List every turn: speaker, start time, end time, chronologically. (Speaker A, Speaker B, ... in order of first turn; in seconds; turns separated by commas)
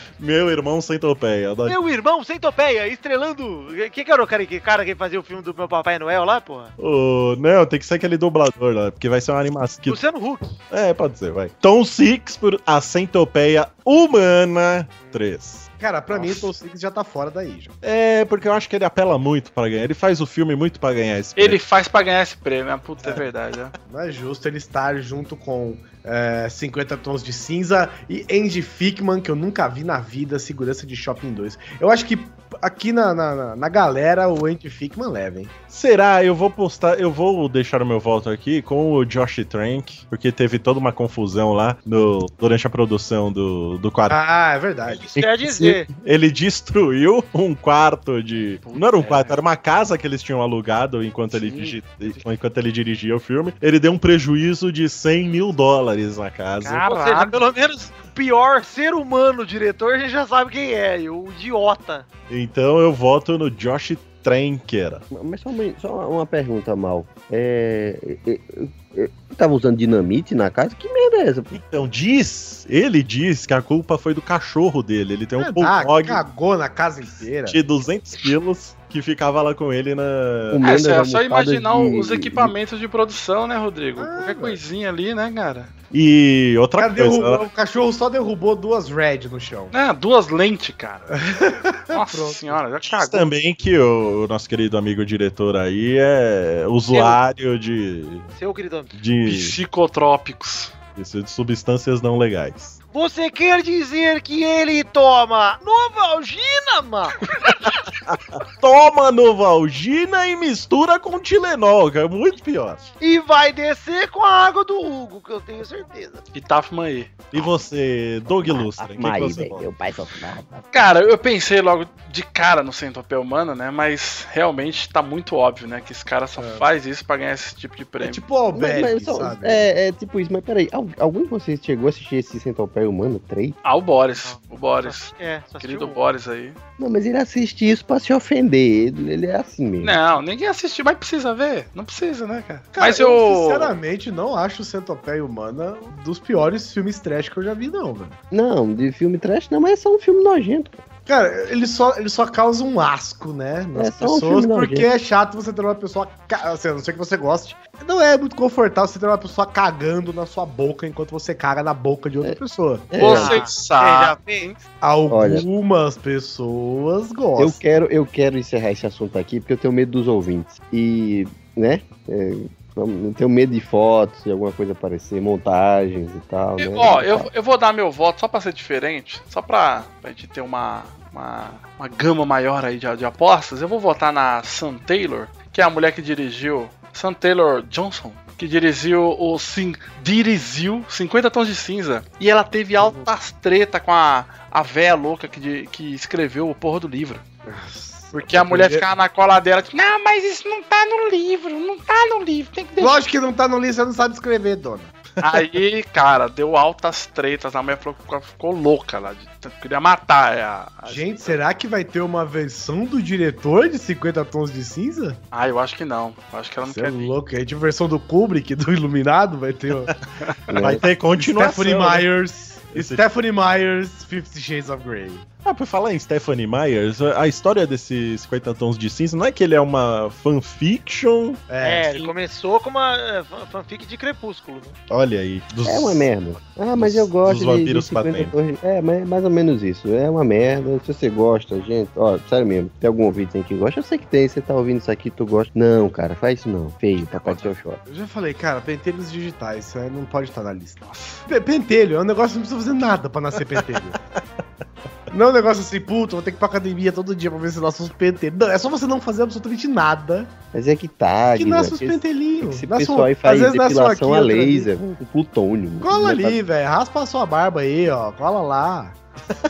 Speaker A: 0.2-1.8, Speaker B: 1.6-6.7, Speaker A: 6.8-10.0, Speaker B: 9.8-10.6, Speaker A: 10.7-16.4, Speaker C: 15.8-17.7, Speaker A: 17.8-21.6, Speaker D: 21.4-23.7, Speaker C: 23.9-35.5, Speaker A: 35.7-44.2, Speaker C: 44.1-45.0, Speaker B: 44.9-45.9, Speaker A: 45.1-56.8, Speaker D: 48.6-49.4, Speaker D: 51.3-52.2, Speaker D: 56.6-57.4, Speaker B: 56.8-62.1, Speaker A: 62.3-65.0, Speaker E: 65.1-71.6, Speaker A: 71.5-76.2, Speaker C: 75.4-77.6, Speaker A: 77.5-80.6, Speaker E: 80.5-82.5, Speaker D: 80.6-85.7, Speaker C: 84.0-84.6, Speaker A: 85.9-87.4, Speaker C: 86.8-89.7, Speaker D: 89.7-91.1, Speaker C: 91.1-92.6, Speaker D: 91.9-93.3, Speaker A: 92.8-98.3, Speaker B: 96.9-97.2, Speaker B: 98.3-98.9, Speaker A: 98.9-99.6, Speaker D: 99.2-100.7, Speaker A: 100.9-102.8, Speaker B: 102.9-107.2, Speaker A: 107.4-112.9, Speaker B: 113.0-116.2, Speaker D: 116.3-117.3, Speaker A: 117.3-119.7, Speaker E: 118.3-120.7, Speaker D: 120.7-128.2, Speaker C: 126.4-126.7, Speaker C: 128.0-129.7, Speaker E: 128.5-133.6, Speaker D: 133.6-136.6, Speaker B: 134.2-136.0, Speaker E: 136.8-140.0, Speaker D: 139.8-143.8, Speaker C: 142.7-148.2, Speaker E: 148.3-150.8, Speaker C: 151.1-162.9, Speaker E: 153.7-154.9, Speaker E: 162.9-163.4, Speaker D: 163.0-164.6, Speaker B: 163.0-164.5, Speaker C: 164.8-167.6, Speaker E: 165.1-165.4, Speaker E: 167.4-177.3, Speaker D: 176.6-197.2, Speaker C: 197.4-198.9, Speaker D: 198.1-203.0, Speaker C: 202.8-204.9, Speaker D: 205.2-211.3, Speaker C: 210.8-215.2, Speaker D: 215.3-217.1, Speaker C: 216.6-219.9, Speaker E: 220.5-220.9, Speaker A: 220.6-222.1, Speaker C: 221.1-225.2, Speaker A: 222.7-223.0, Speaker A: 225.4-231.4, Speaker C: 231.5-232.1, Speaker B: 231.6-234.8, Speaker A: 234.9-236.1, Speaker E: 235.6-247.8, Speaker A: 236.8-238.3, Speaker D: 247.1-247.5, Speaker C: 247.8-254.0, Speaker D: 250.8-251.2, Speaker C: 255.1-260.3, Speaker E: 260.5-266.4, Speaker C: 261.3-264.7, Speaker C: 265.8-269.0